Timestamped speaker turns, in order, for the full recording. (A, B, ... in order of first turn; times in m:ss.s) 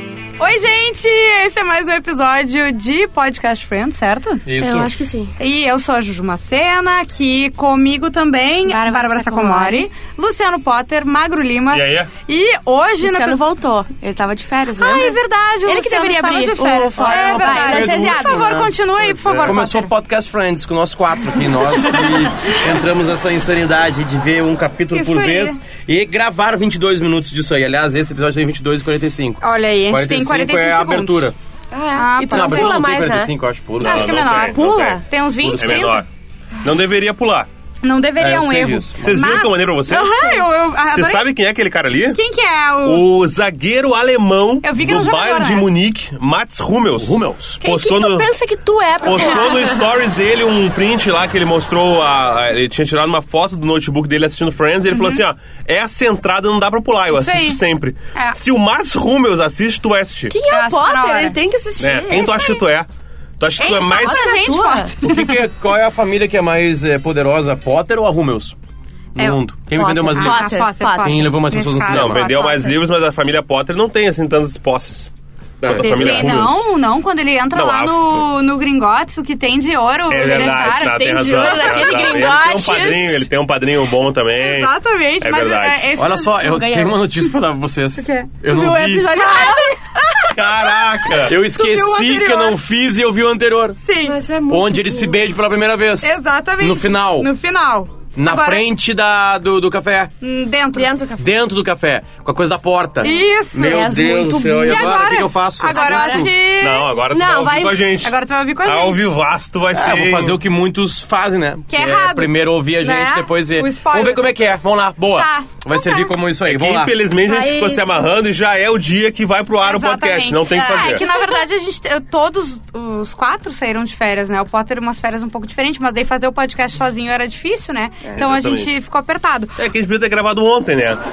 0:00.4-0:04.4 A
0:04.4-0:04.9 B
0:04.6-0:05.3 C
0:05.4-0:13.4 A
0:08.7-0:09.9 C
0:11.7-0:12.1 D
0:13.0-0:18.5 C
0:14.8-0:19.9 A
0:17.0-0:18.7 B
0:19.0-0:19.6 D
0:19.4-0:31.4 B
0:24.9-0:25.6 A
0:29.4-0:31.3 A
0:31.7-0:33.3 C
0:32.0-0:32.9 A
0:32.2-0:34.3 B
0:33.8-0:36.1 D
0:33.8-0:36.0 A
0:35.4-0:35.9 B
0:36.6-0:37.5 D
0:37.8-0:41.3 A
0:38.2-0:39.4 B
0:39.0-0:40.2 D
0:40.2-0:40.4 C
0:40.9-0:42.2 D
0:42.1-0:43.1 A
0:42.8-0:48.3 D
0:44.6-0:45.7 A
0:47.0-0:47.6 B
0:47.6-0:49.9 C
0:49.0-1:00.3 D
0:54.9-0:55.2 A
0:57.1-0:57.6 A
1:00.3-1:02.6 C
1:00.5-1:01.4 A
1:01.8-1:02.9 D
1:03.4-1:04.3 D
1:03.6-1:05.4 A
1:03.9-1:04.9 C
1:05.0-1:08.6 B
1:09.2-1:12.3 B
1:09.7-1:11.2 C
1:10.1-1:12.7 A
1:11.8-1:16.6 D
1:15.6-1:16.4 B
1:15.8-1:22.3 A
1:17.5-1:18.3 D
1:20.1-1:25.9 D
1:20.2-1:23.3 C
1:24.4-1:26.5 A
1:26.0-1:29.2 B
1:26.4-1:27.0 C
1:28.0-1:28.3 A
1:28.4-1:29.9 C
1:29.1-1:32.6 A
1:30.3-1:31.4 D
1:31.2-1:33.8 B
1:33.8-1:34.2 A
1:34.0-1:35.2 C
1:34.5-1:37.3 B
1:36.0-1:38.7 A
1:38.2-1:40.1 B
1:40.2-1:40.9 A
1:40.8-1:41.2 C
1:41.2-1:46.3 B
1:43.0-1:43.9 A
1:43.0-1:46.2 C
1:44.6-1:47.0 A
1:46.4-1:50.4 D
1:47.1-1:47.8 C
1:48.0-1:49.1 A
1:49.7-1:57.0 B
1:51.7-1:54.4 A
1:55.1-1:56.1 A
1:56.4-2:01.0 D
1:57.2-1:58.1 C
1:59.6-2:09.6 A
2:00.7-2:01.2 C
2:08.2-2:08.7 D
2:09.6-2:11.0 D